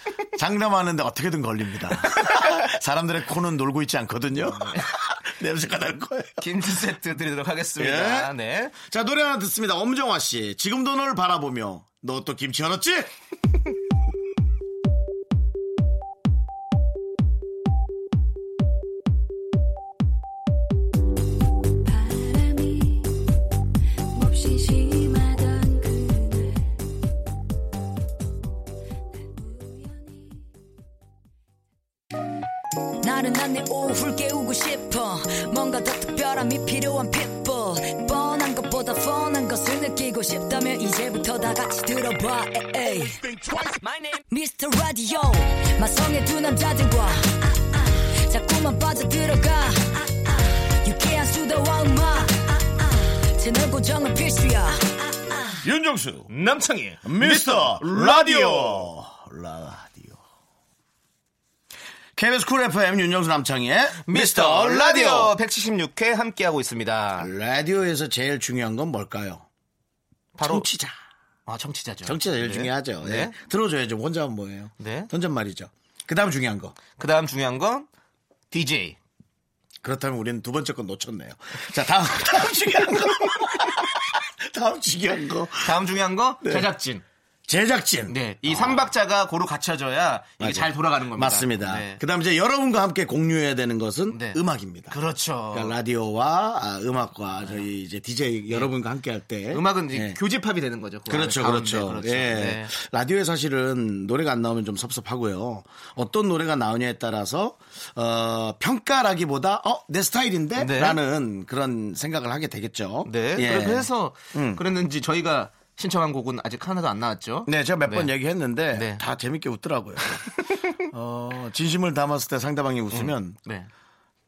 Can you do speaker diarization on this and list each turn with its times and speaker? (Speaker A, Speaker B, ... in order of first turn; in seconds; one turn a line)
Speaker A: 0.3-6.5
Speaker B: 2.0-2.6
Speaker B: 6.4-8.8
Speaker A: 7.8-13.1
Speaker C: 22.0-22.9
Speaker C: 24.2-25.8
Speaker D: 33.0-55.6
Speaker A: 55.6-56.3
Speaker B: 56.3-58.9
Speaker A: 57.0-60.2
Speaker A: 62.1-65.3
Speaker B: 64.0-67.3
Speaker A: 67.2-69.4
Speaker B: 70.3-70.7
Speaker A: 70.4-71.0
Speaker B: 71.5-73.3
Speaker A: 72.0-76.8
Speaker B: 74.8-75.1
Speaker B: 77.0-77.9
Speaker B: 78.5-79.0
Speaker A: 79.8-85.7
Speaker B: 85.6-87.0
Speaker A: 87.5-88.9
Speaker B: 88.1-92.0
Speaker A: 90.4-95.0
Speaker B: 94.1-95.7
Speaker A: 95.5-100.2
Speaker B: 99.5-102.7
Speaker A: 101.1-114.6
Speaker B: 110.5-111.0
Speaker B: 113.0-118.1
Speaker A: 117.5-120.2
Speaker B: 118.7-119.0
Speaker B: 120.1-120.7
Speaker A: 120.9-123.4
Speaker B: 122.9-123.7